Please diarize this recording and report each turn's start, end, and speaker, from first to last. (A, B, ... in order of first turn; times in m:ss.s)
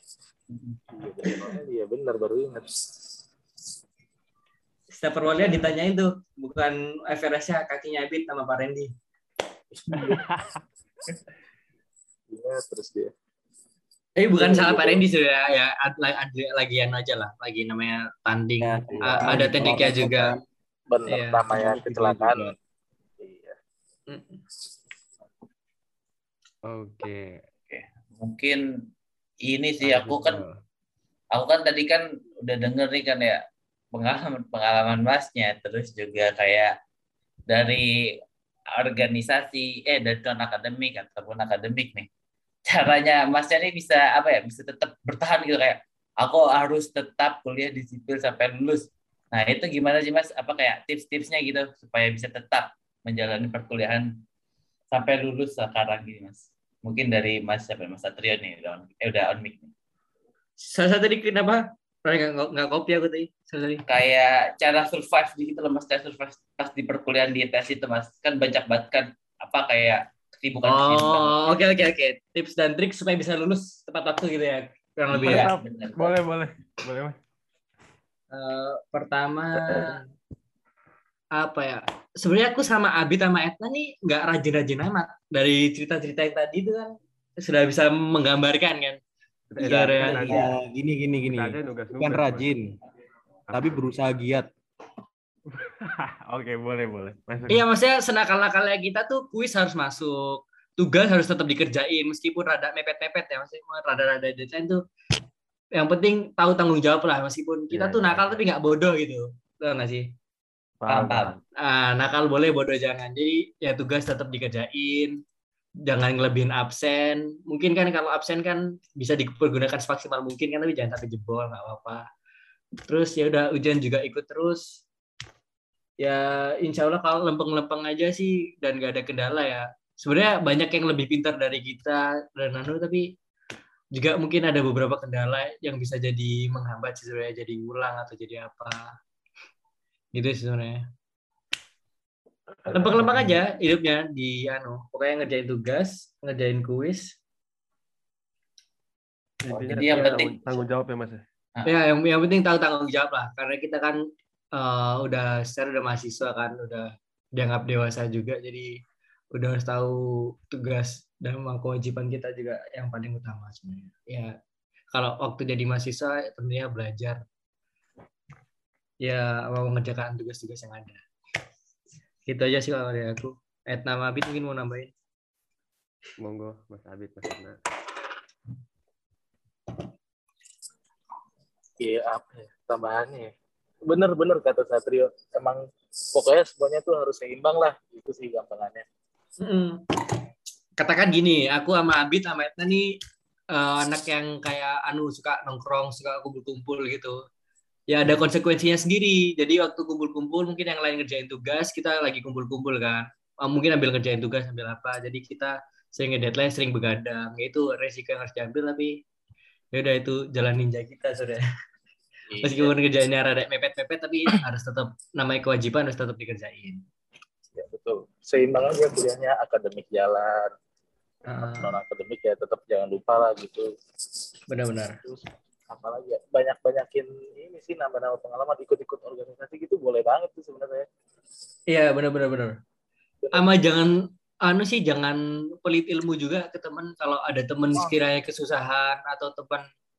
0:00.9-0:02.8 A
0:04.9-0:08.9 B
0:09.7-0:10.2 A
0:09.9-0:10.6 C
0:12.3-0:13.1 A
0:14.2-0:20.3 B
0:14.3-0:15.0 A
0:18.6-0:20.4 D
0:18.9-0:20.4 A
0:20.9-0:22.5 A
0:21.1-0:21.4 B
0:21.5-0:22.5 D
0:23.2-0:23.5 A
0:24.1-0:24.4 B
0:26.7-0:27.4 C
0:27.7-0:28.6 E
0:29.4-0:30.4 E
0:29.8-0:30.6 C
0:31.3-0:33.4 E
0:33.9-0:36.7 E
0:37.5-0:37.8 E
0:38.7-0:42.1 E
0:42.7-0:54.1 E
0:54.9-0:59.7 E
1:00.6-1:03.8 B
1:03.9-1:11.6 E
1:10.6-1:15.5 B
1:15.1-1:16.1 E
1:15.1-1:17.2 C
1:18.3-1:20.0 B
1:21.4-1:29.0 B
1:29.5-1:30.5 C
1:29.6-1:30.5 B
1:30.0-1:30.4 E
1:30.1-1:32.7 D
1:31.2-1:32.4 C
1:33.5-1:33.8 C
1:33.5-1:34.5 D
1:35.5-1:37.6 C
1:37.5-1:44.8 B
1:45.8-1:50.1 B
1:47.7-1:48.4 C
1:50.8-1:51.4 C
1:50.9-1:51.3 E
1:51.6-1:55.2 B
1:55.8-2:02.0 B
2:02.8-2:04.8 B
2:06.0-2:13.1 B
2:13.9-2:18.9 B
2:20.1-2:20.8 B
2:22.6-2:23.4 C
2:22.7-2:27.1 B
2:29.4-2:31.2 C
2:29.5-2:30.6 E
2:31.6-2:34.0 B
2:34.5-2:38.7 B
2:39.3-2:44.3 B
2:44.9-2:47.2 B
2:49.0-2:51.0 B
2:52.3-2:54.9 B
2:56.2-2:57.6 C
3:01.8-3:03.3 A
3:03.8-3:05.6 A
3:06.1-3:08.8 A
3:09.4-3:09.8 B
3:10.8-3:12.9 B
3:13.5-3:17.2 B
3:17.9-3:29.0 B
3:29.7-3:31.4 B
3:32.3-3:32.8 A
3:32.4-3:36.8 B
3:37.5-3:40.5 A
3:41.3-3:41.8 B
3:41.3-3:43.7 A
3:44.5-3:45.0 B
3:45.0-3:50.9 A
3:51.7-3:52.6 B
3:53.3-3:53.9 B
3:54.4-3:59.6 B